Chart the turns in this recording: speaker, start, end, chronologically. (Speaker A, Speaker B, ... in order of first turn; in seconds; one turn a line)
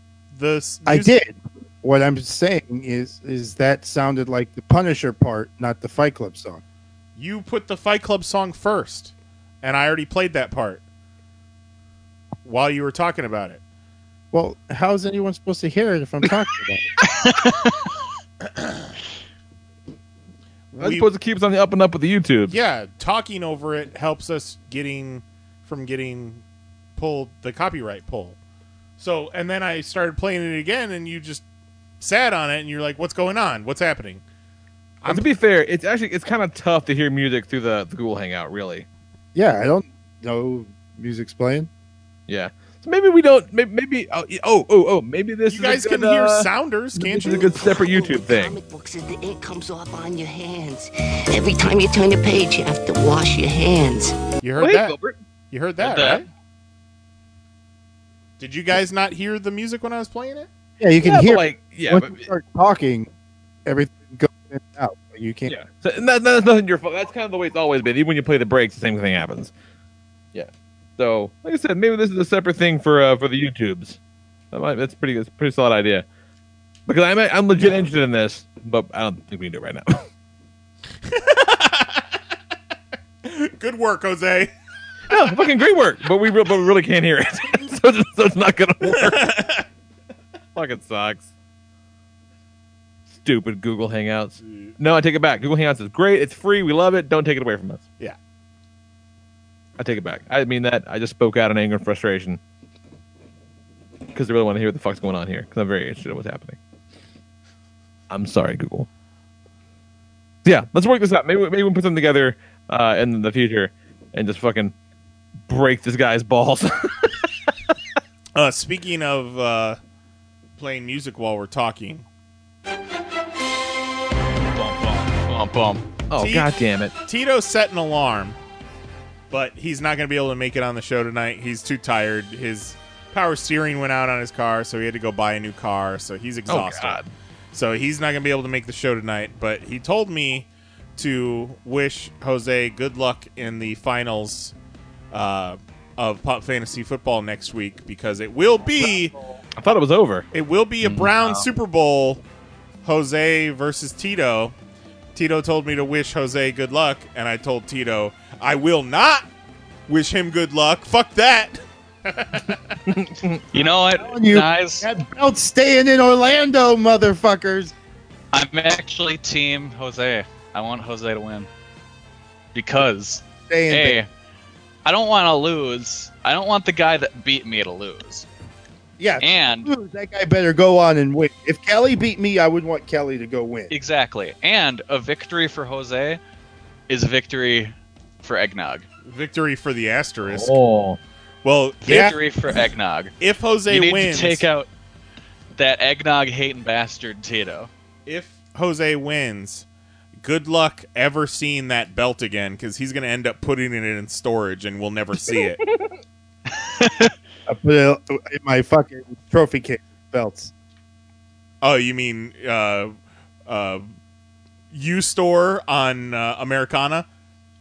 Speaker A: 0.3-1.2
Speaker B: 0.9-6.6
Speaker A: 7.2-10.8
Speaker A: 12.4-13.6
Speaker B: 14.3-16.9
Speaker C: 17.0-17.9
Speaker A: 18.6-18.9
Speaker A: 20.7-21.1
Speaker D: 20.8-22.5
Speaker A: 22.5-26.4
Speaker A: 27.0-28.4
Speaker A: 29.0-31.4
Speaker A: 32.0-34.2
Speaker A: 35.0-35.3
Speaker D: 35.1-38.9
Speaker B: 39.4-41.7
Speaker D: 42.3-48.6
Speaker A: 45.5-47.5
Speaker E: 47.3-54.1
Speaker A: 54.4-55.0
Speaker D: 54.6-55.2
Speaker A: 55.5-56.2
Speaker C: 55.8-56.2
Speaker A: 58.4-60.5
Speaker B: 60.8-63.1
Speaker D: 61.0-62.3
Speaker B: 63.7-65.5
Speaker D: 65.5-69.5
Speaker D: 70.3-74.0
Speaker D: 74.5-76.0
Speaker D: 76.9-80.1
Speaker A: 81.1-82.0
Speaker A: 83.2-84.5
Speaker D: 85.1-89.3
Speaker A: 88.8-89.6
Speaker D: 90.5-91.3
Speaker D: 93.2-97.8
Speaker A: 94.4-94.8
Speaker D: 99.8-102.4
Speaker D: 104.1-106.6
Speaker D: 108.1-108.9
Speaker D: 110.5-114.7
Speaker D: 115.5-117.3
Speaker A: 118.3-119.8
Speaker A: 120.6-122.0
Speaker C: 124.5-125.9
Speaker D: 126.1-126.9
Speaker A: 126.2-126.5
Speaker A: 127.1-128.4
Speaker A: 129.3-137.0
Speaker D: 136.5-137.1
Speaker A: 137.5-144.5
Speaker A: 145.1-149.1
Speaker B: 148.8-149.4
Speaker D: 149.6-150.3
Speaker A: 150.3-152.2
Speaker C: 150.8-151.5
Speaker A: 152.8-154.5
Speaker A: 155.1-159.3
Speaker A: 159.9-162.6
Speaker D: 162.9-163.4
Speaker C: 163.5-164.9
Speaker B: 164.0-167.7
Speaker C: 168.3-171.5
Speaker C: 172.5-174.1
Speaker B: 173.5-174.0
Speaker C: 174.8-178.3
Speaker B: 179.0-183.7
Speaker C: 179.2-179.7
Speaker C: 183.7-186.2
Speaker C: 186.9-188.8
Speaker A: 189.1-190.6
Speaker D: 190.3-191.0
Speaker A: 191.4-192.1
Speaker C: 191.9-193.1
Speaker B: 191.9-192.2
Speaker A: 193.2-194.4
Speaker C: 193.7-194.7
Speaker C: 195.6-197.7
Speaker A: 198.1-199.7
Speaker A: 200.2-205.6
Speaker D: 205.3-206.0
Speaker C: 206.5-207.1
Speaker B: 207.5-210.5
Speaker A: 211.6-212.9
Speaker A: 213.5-213.9
Speaker A: 214.7-217.1